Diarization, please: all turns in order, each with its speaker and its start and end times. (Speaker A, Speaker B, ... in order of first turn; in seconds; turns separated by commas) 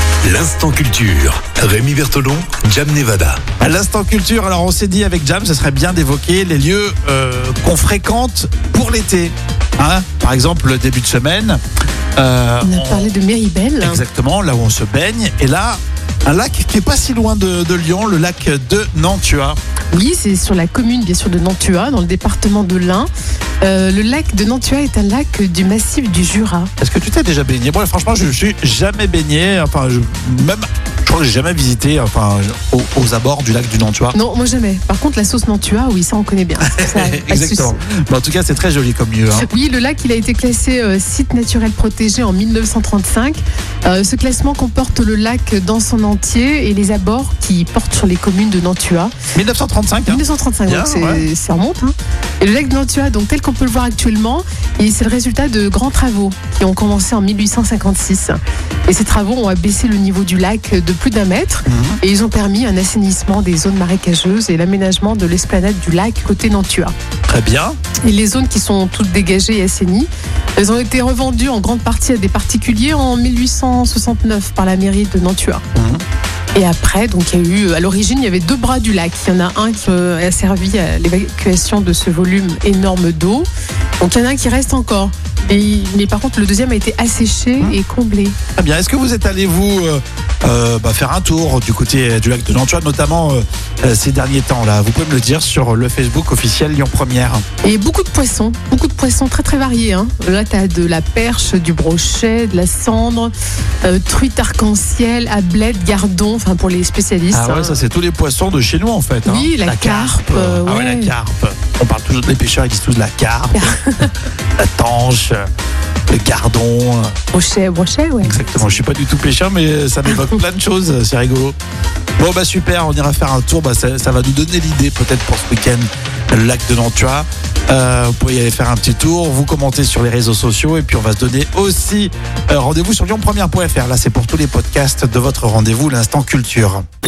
Speaker A: 0.2-3.4, Speaker B: 3.6-11.6, Speaker B: 12.2-13.1, Speaker C: 12.6-14.0, Speaker B: 13.8-19.6, Speaker C: 19.9-23.1, Speaker C: 23.6-26.7, Speaker B: 26.8-34.2, Speaker C: 34.1-37.8, Speaker B: 36.6-39.5, Speaker C: 39.3-49.1, Speaker B: 49.3-51.3, Speaker C: 50.1-66.9, Speaker B: 61.7-62.0, Speaker B: 67.3-67.8, Speaker C: 68.0-75.6, Speaker B: 75.8-76.0, Speaker C: 76.5-83.5, Speaker C: 84.0-88.4, Speaker B: 88.6-97.4, Speaker C: 97.6-107.8, Speaker B: 107.3-113.8, Speaker C: 109.2-111.1, Speaker C: 113.5-114.2, Speaker B: 114.6-115.4, Speaker B: 116.1-117.1, Speaker C: 117.3-118.7, Speaker B: 118.2-121.6, Speaker B: 122.2-136.8